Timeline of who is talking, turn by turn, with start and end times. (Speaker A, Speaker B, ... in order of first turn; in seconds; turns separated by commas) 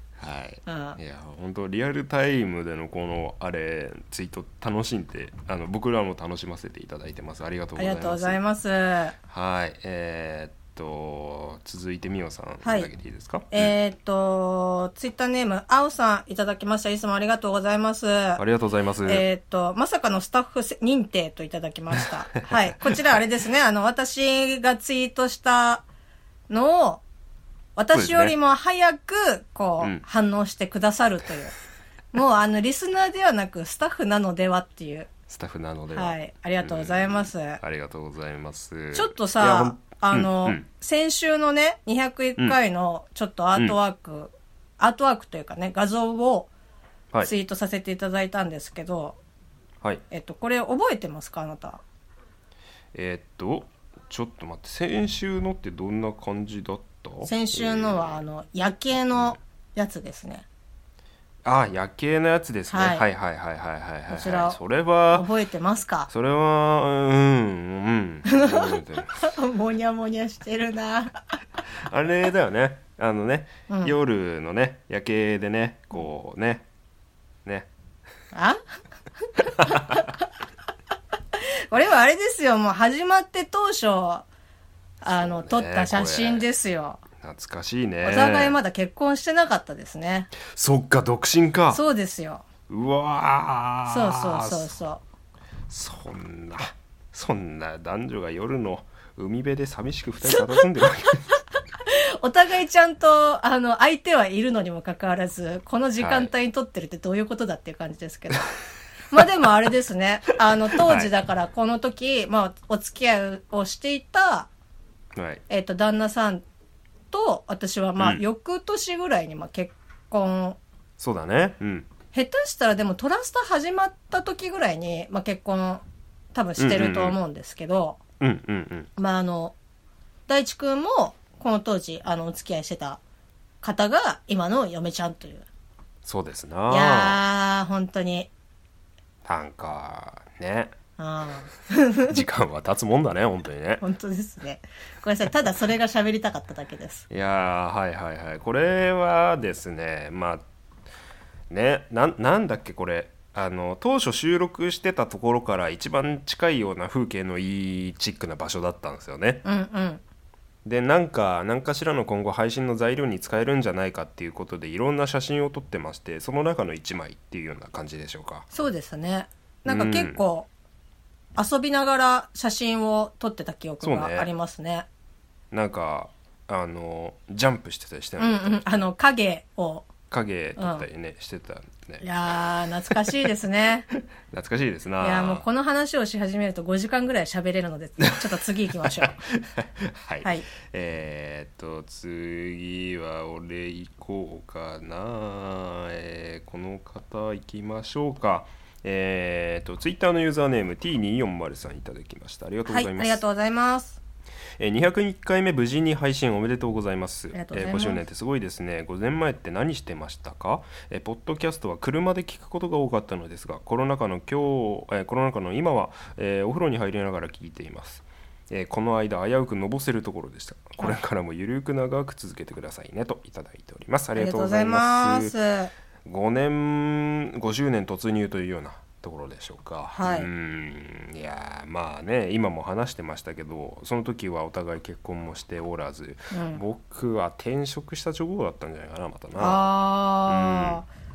Speaker A: 0.2-8.4, Speaker B: 0.7-1.0, Speaker B: 7.8-9.2, Speaker A: 9.3-13.7, Speaker B: 12.6-12.9, Speaker B: 13.5-18.4, Speaker A: 18.4-19.2, Speaker B: 19.1-25.8, Speaker A: 22.9-23.1, Speaker B: 26.5-27.0, Speaker B: 27.8-31.6, Speaker A: 27.9-28.4, Speaker B: 32.1-35.1, Speaker A: 35.3-40.6, Speaker B: 35.9-37.6, Speaker B: 38.9-46.5, Speaker B: 47.2-49.2, Speaker B: 50.1-51.8, Speaker A: 52.9-58.2, Speaker B: 57.2-60.5, Speaker A: 61.5-65.3, Speaker B: 62.7-63.0, Speaker B: 64.1-64.6, Speaker B: 65.1-66.1, Speaker A: 66.1-69.2, Speaker B: 68.3-71.2, Speaker A: 71.7-76.7, Speaker B: 73.7-73.9, Speaker B: 78.3-78.6, Speaker B: 79.5-80.1, Speaker A: 79.6-80.0, Speaker B: 81.4-84.3, Speaker B: 85.0-87.0, Speaker A: 85.1-86.5, Speaker A: 87.2-88.6, Speaker B: 88.0-90.3, Speaker A: 90.4-91.8, Speaker B: 91.7-92.5, Speaker A: 92.7-94.7, Speaker B: 93.9-95.0, Speaker A: 95.7-101.2, Speaker B: 101.8-108.5, Speaker A: 106.0-106.3, Speaker B: 109.1-114.5, Speaker A: 110.7-111.1, Speaker A: 115.2-115.4, Speaker B: 115.5-116.4, Speaker B: 117.1-120.6, Speaker A: 121.0-121.9, Speaker B: 122.1-125.8, Speaker B: 126.3-128.0, Speaker A: 126.6-127.2, Speaker A: 128.2-128.9, Speaker B: 129.0-129.6, Speaker B: 130.3-133.0, Speaker B: 133.6-135.5, Speaker A: 136.0-137.2, Speaker B: 136.7-138.3, Speaker A: 139.2-140.7, Speaker B: 141.0-142.2, Speaker A: 142.1-143.8, Speaker B: 143.8-147.1, Speaker A: 147.1-150.4, Speaker A: 151.5-159.4, Speaker B: 159.4-160.0, Speaker A: 160.7-168.5, Speaker B: 168.5-170.5, Speaker A: 169.7-170.2, Speaker B: 171.4-174.9, Speaker A: 173.8-174.3, Speaker A: 175.5-178.8, Speaker B: 178.2-179.9, Speaker A: 180.1-182.1, Speaker B: 180.6-180.9, Speaker B: 182.0-183.9, Speaker A: 184.3-185.4, Speaker B: 185.0-189.2, Speaker A: 188.1-203.2, Speaker B: 202.7-204.0, Speaker A: 204.6-225.3, Speaker B: 207.3-208.0, Speaker B: 224.2-225.7, Speaker A: 226.1-239.7, Speaker B: 229.9-230.3, Speaker B: 236.3-236.6, Speaker B: 239.4-240.9, Speaker A: 240.3-240.8